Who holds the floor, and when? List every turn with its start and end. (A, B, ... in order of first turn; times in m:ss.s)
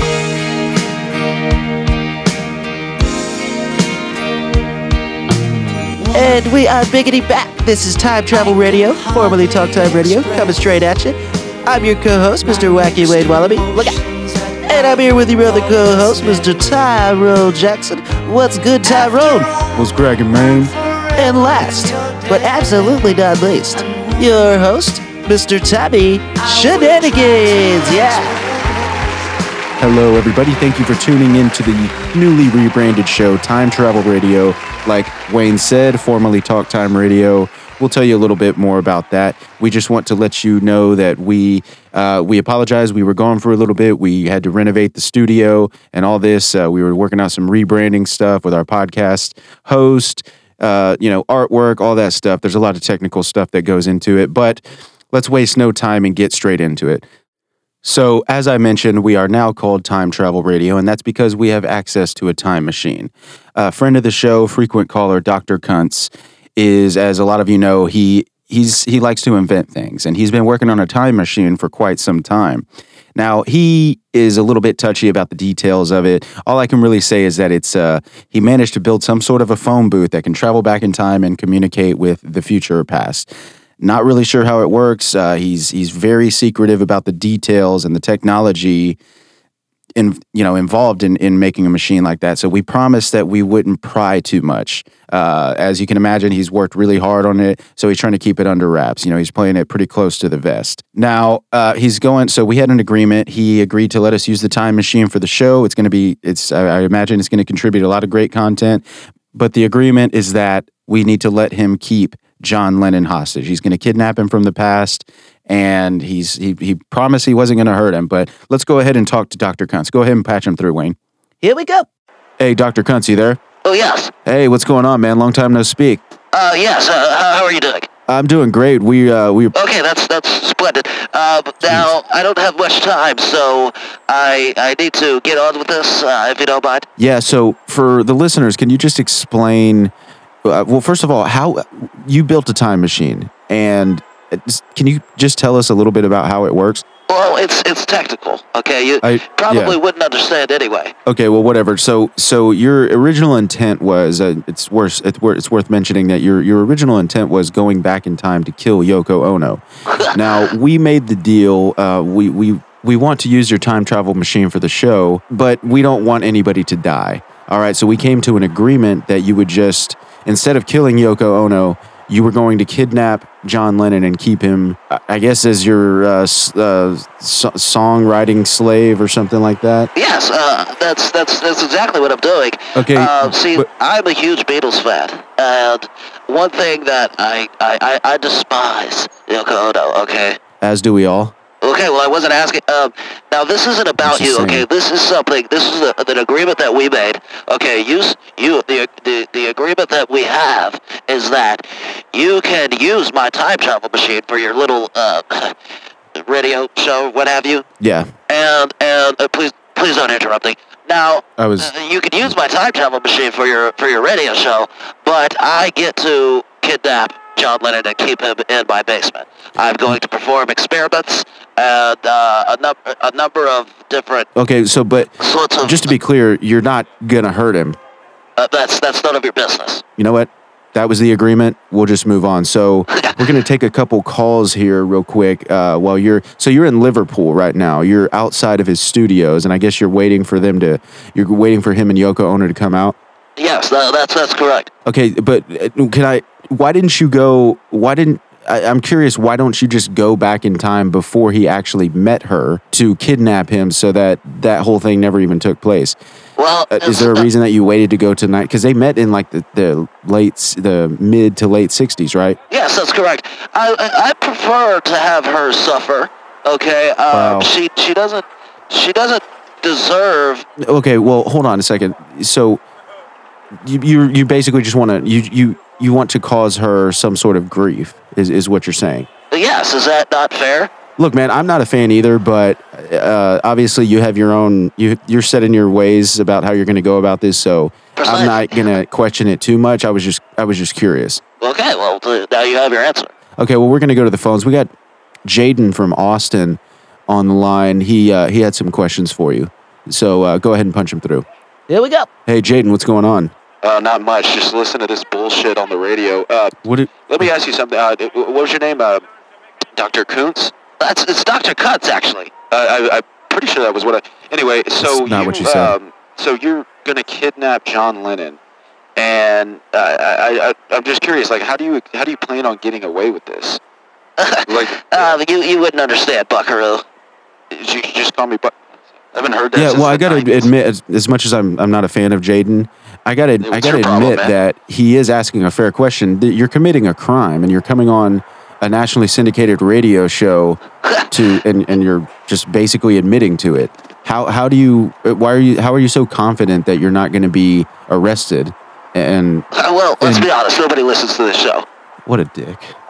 0:06.1-0:14.0 A
0:14.6-0:19.6 A
0:19.7-0:20.7 B
0:21.1-0:28.3 A
0:29.8-0:57.0 B
0:57.8-1:23.3 B
1:23.8-1:29.0 B
1:30.0-2:01.0 B
2:01.4-2:01.8 A
2:02.4-2:03.4 B
2:03.6-2:04.1 C
2:04.2-2:06.0 B
2:06.3-2:07.9 C
2:08.1-2:09.5 B
2:09.5-2:16.9 C
2:11.6-2:11.9 B
2:17.0-2:19.9 B
2:20.4-2:26.8 B
2:27.1-2:30.9 C
2:29.0-2:29.8 B
2:31.0-2:59.9 B
2:39.9-2:40.5 C
2:59.9-3:10.4 C
3:02.7-3:03.7 B
3:10.6-3:11.3 B
3:11.6-3:25.5 C
3:14.0-3:14.6 B
3:26.1-3:27.6 C
3:27.8-3:28.1 B
3:28.3-3:44.3 C
3:31.4-3:31.7 B
3:44.3-3:47.8 B
3:45.2-3:45.9 C
3:48.4-3:49.8 C
3:50.0-4:03.0 B
3:52.9-3:53.2 C
4:03.4-4:04.7 C
4:04.8-4:16.0 B
4:16.4-4:17.3 C
4:16.7-4:22.4 B
4:22.5-4:30.4 C
4:27.1-4:27.5 B
4:30.6-4:32.6 B
4:33.5-4:39.1 B
4:39.3-4:40.7 C
4:41.0-4:51.2 B
4:48.0-4:48.8 C
4:51.4-4:53.1 C
4:53.4-4:54.7 B
4:55.2-5:01.2 B
5:01.7-5:02.1 A
5:02.2-5:03.3 B
5:03.6-5:09.1 D
5:06.6-5:07.3 B
5:09.7-5:10.5 D
5:10.8-5:12.3 C
5:12.4-5:18.4 D
5:14.8-5:15.8 B
5:19.0-5:23.6 D
5:24.2-5:26.8 C
5:24.5-5:25.2 D
5:27.5-5:28.6 D
5:29.1-5:30.3 D
5:29.5-5:49.5 B
5:33.5-5:34.3 C
5:33.8-5:34.2 D
5:49.5-5:51.6 C
5:50.0-5:50.3 B
5:52.0-5:52.7 B